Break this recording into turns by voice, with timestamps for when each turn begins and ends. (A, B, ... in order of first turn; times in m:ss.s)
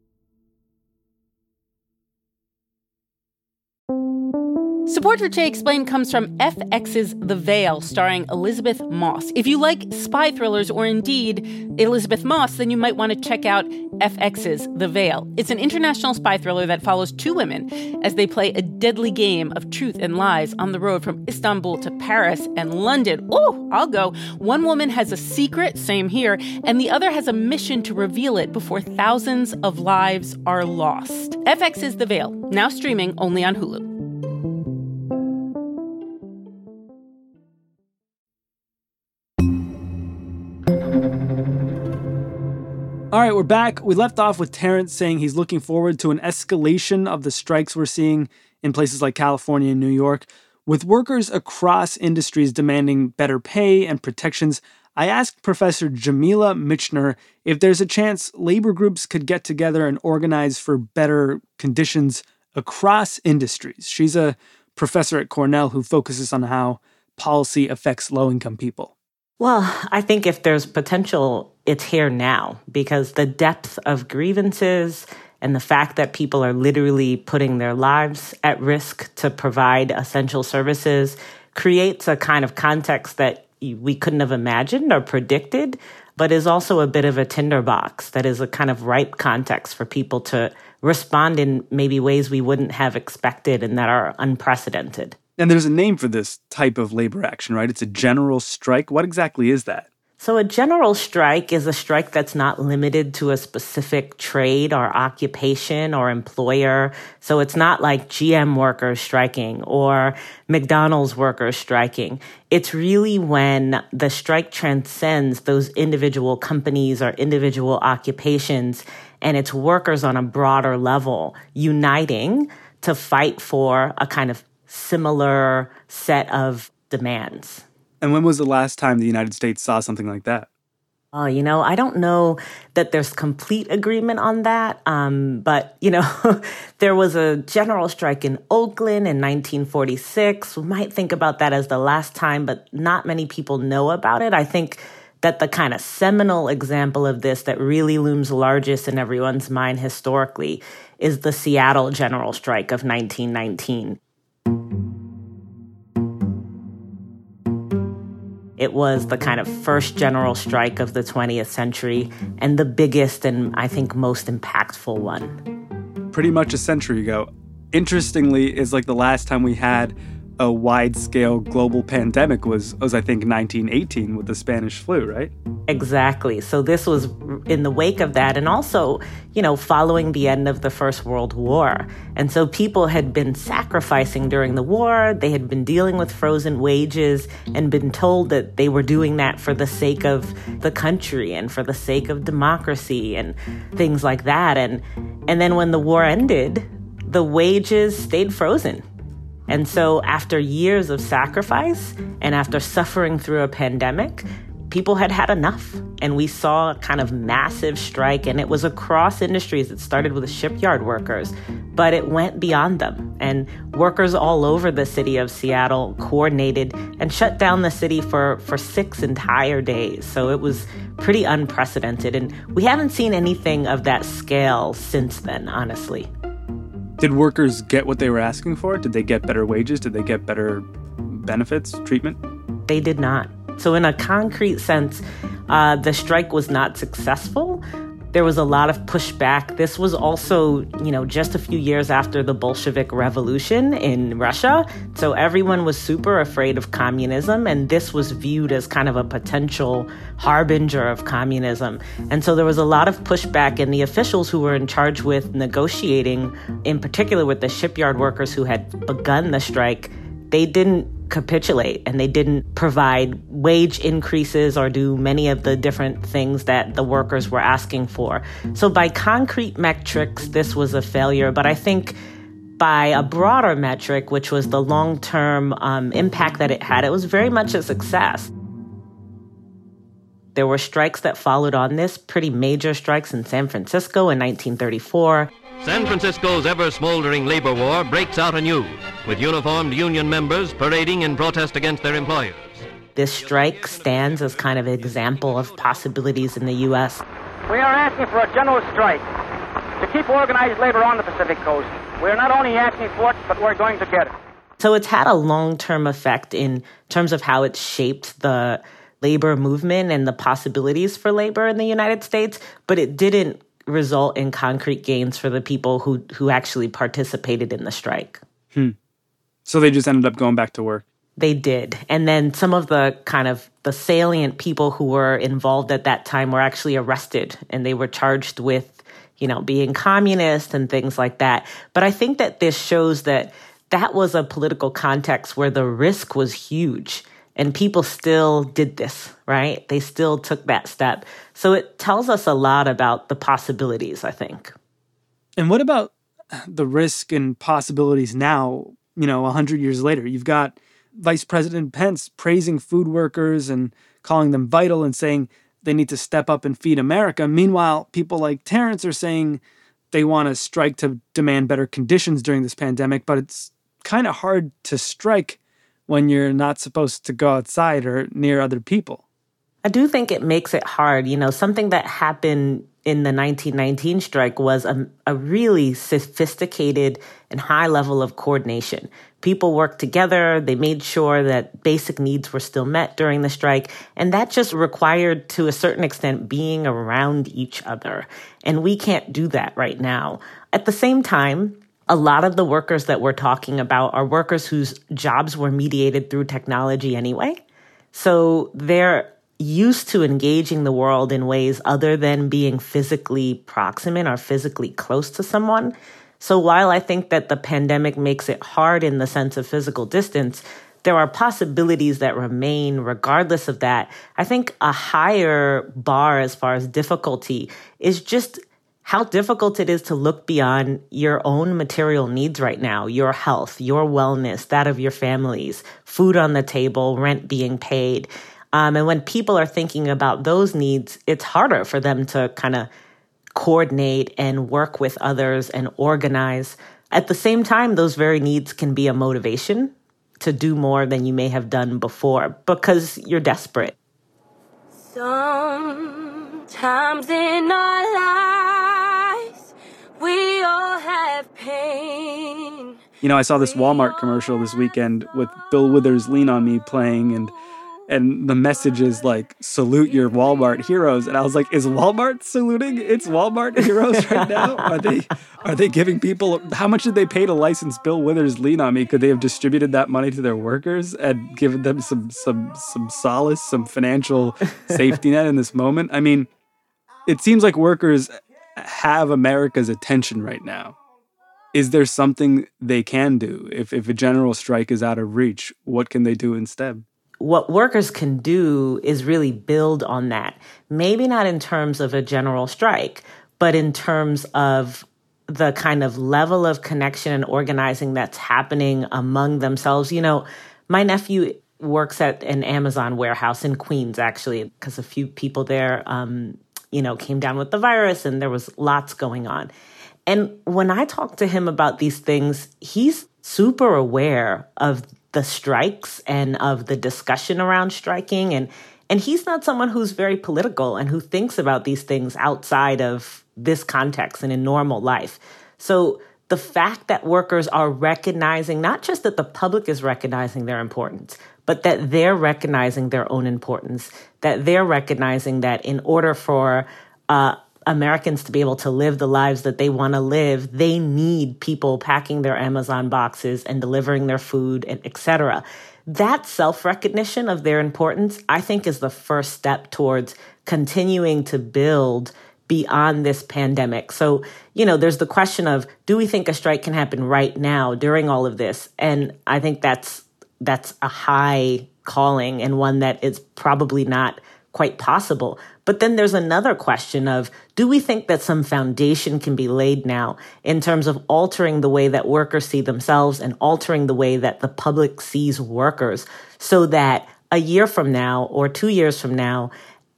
0:04.9-0:33.9 A
0:43.1-1:08.9 B
1:09.4-1:35.2 C
1:35.4-1:39.9 B
1:40.2-2:07.6 C
2:08.0-2:10.5 B
2:11.1-2:34.0 C
2:38.6-2:45.4 C
2:46.1-2:55.3 B
2:55.7-3:18.8 C
3:19.5-3:46.1 C
3:47.0-3:52.2 B
3:52.7-4:32.0 C
4:32.6-4:38.3 C
4:40.4-4:45.3 C
4:45.6-4:52.7 D
4:53.0-4:57.0 C
4:57.5-4:59.0 E
4:59.8-5:04.1 E
5:04.6-5:18.2 C
5:19.5-5:20.8 B
5:21.2-5:44.5 C
5:45.4-5:59.4 B
5:59.9-6:09.0 B
6:09.6-6:37.4 C
6:37.9-7:12.7 C
7:13.4-7:23.8 C
7:24.7-7:32.8 F
7:33.0-7:37.3 B
7:37.9-7:56.3 B
7:57.1-8:00.8 B
8:01.5-8:06.8 B
8:07.2-8:29.5 C
8:30.1-9:39.5 C